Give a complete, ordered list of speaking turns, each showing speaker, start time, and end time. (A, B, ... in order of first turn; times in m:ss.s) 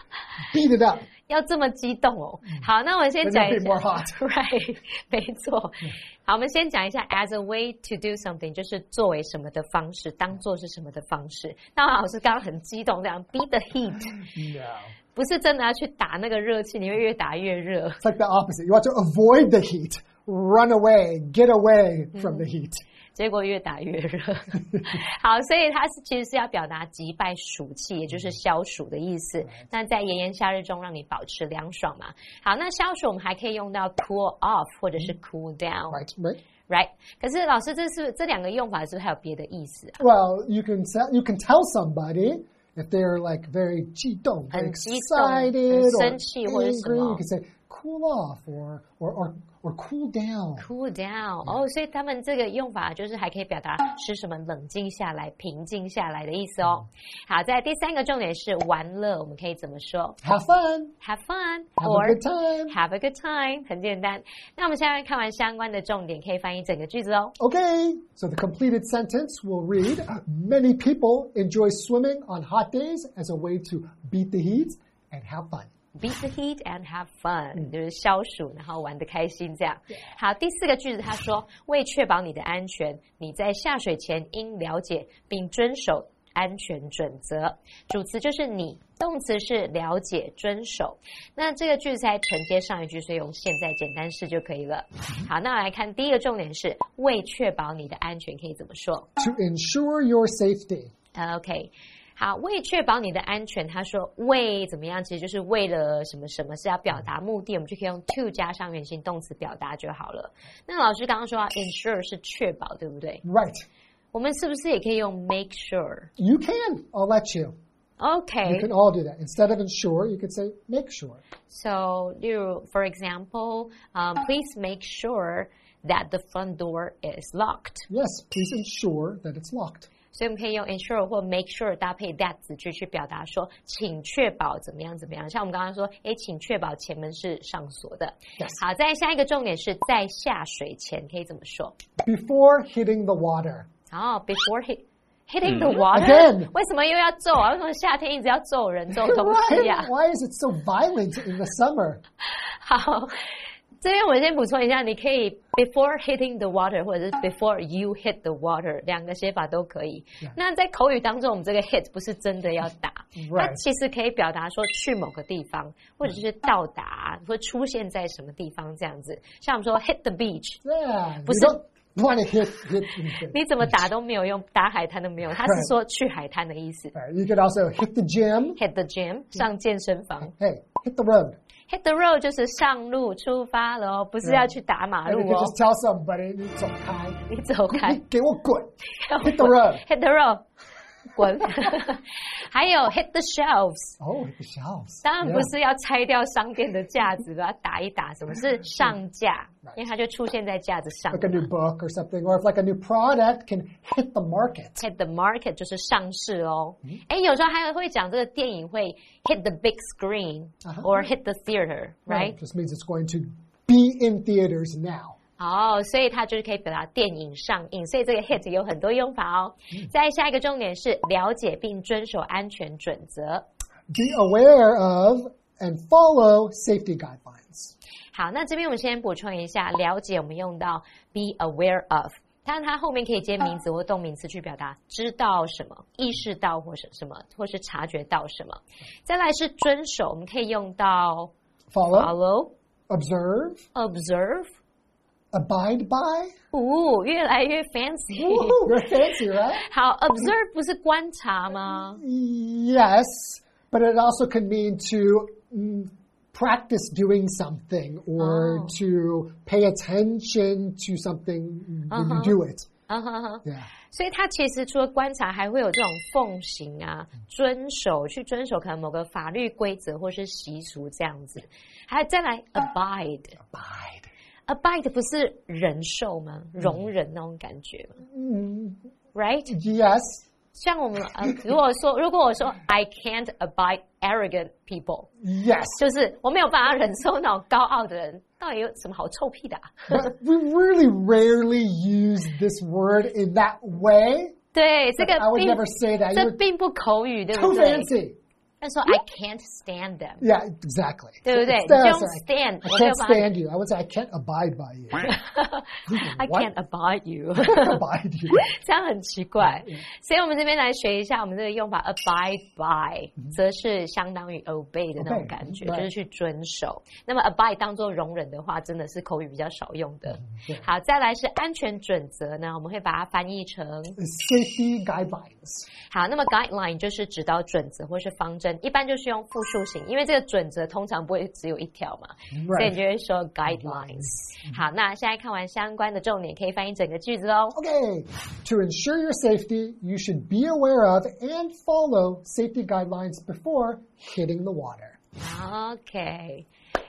0:00.4-0:01.1 A
0:01.3-0:14.3 B
0:03.2-0:04.2 A
0:14.3-0:14.9 A
0:15.1-0:18.0 B
0:18.0-0:22.8 A
0:22.1-0:22.4 B
0:23.1-0:36.0 B
0:35.9-0:36.4 A
0:36.7-0:40.0 B
0:40.0-0:50.7 A
0:44.5-0:47.2 B
0:50.6-1:00.2 B
1:00.2-1:00.9 A
1:01.0-1:07.3 B
1:01.8-1:02.7 A
1:07.4-1:15.7 A
1:15.9-1:39.1 B
1:39.2-1:40.9 A
1:41.1-1:53.2 B
1:53.2-1:53.6 A
1:54.1-1:56.1 B
1:56.2-1:57.5 A
1:58.0-1:58.7 B
1:58.4-2:01.2 A
2:01.5-2:07.9 B
2:07.9-2:09.9 A
2:10.1-2:21.8 B
2:22.0-2:23.7 A
2:23.9-2:29.9 B
2:25.6-2:26.5 A
2:28.9-2:32.0 A
2:32.6-2:33.1 B
2:33.8-2:50.6 B
2:43.2-2:43.6 A
2:50.6-2:53.8 A
2:51.2-2:51.6 B
2:53.3-2:56.9 B
2:55.4-2:55.7 A
2:56.9-2:58.6 A
2:58.6-3:00.3 B
3:00.2-3:01.4 A
3:01.7-3:05.5 B
3:04.2-3:04.5 A
3:05.0-3:09.8 A
3:07.3-3:08.0 B
3:09.0-3:10.4 B
3:11.1-3:14.0 B
3:14.0-3:15.5 A
3:15.0-3:21.5 B
3:21.1-3:24.8 A
3:24.8-3:32.4 B
3:30.6-3:31.1 A
3:32.1-3:35.2 A
3:35.4-3:43.4 B
3:43.9-3:47.7 A
3:48.1-4:01.3 B
4:01.7-4:02.1 A
4:01.9-4:02.5 B
4:02.9-4:03.6 A
4:03.7-4:04.5 B
4:05.3-4:06.3 A
4:06.5-4:08.8 B
4:08.1-4:09.6 A
4:09.6-4:12.0 B
4:11.6-4:22.7 A
4:18.2-4:18.8 B
4:21.9-4:33.4 B
4:23.4-4:23.7 A
4:33.4-4:34.1 A
4:34.5-4:38.0 B
4:36.6-4:36.9 A
4:38.0-4:38.8 A
4:39.1-4:39.5 B
4:39.5-4:40.2 A
4:40.5-4:45.1 B
4:45.2-4:45.8 A
4:45.8-4:50.0 B
4:49.9-4:54.4 A
4:54.5-4:57.9 B
4:55.0-4:56.4 A
4:57.3-4:58.2 A
4:58.6-5:00.2 B
5:00.2-5:05.2 A
5:01.2-5:03.3 B
5:05.1-5:07.8 B
5:05.9-5:06.5 A
5:07.4-5:08.5 A
5:08.4-5:24.0 B
5:09.4-5:09.8 A
5:15.0-5:15.9 A
5:20.1-5:20.7 A
5:24.0-5:25.7 A
5:25.9-5:37.6 B
5:32.3-5:32.8 A
5:33.4-5:34.6 A
5:37.5-5:45.0 A
5:45.2-5:46.4 B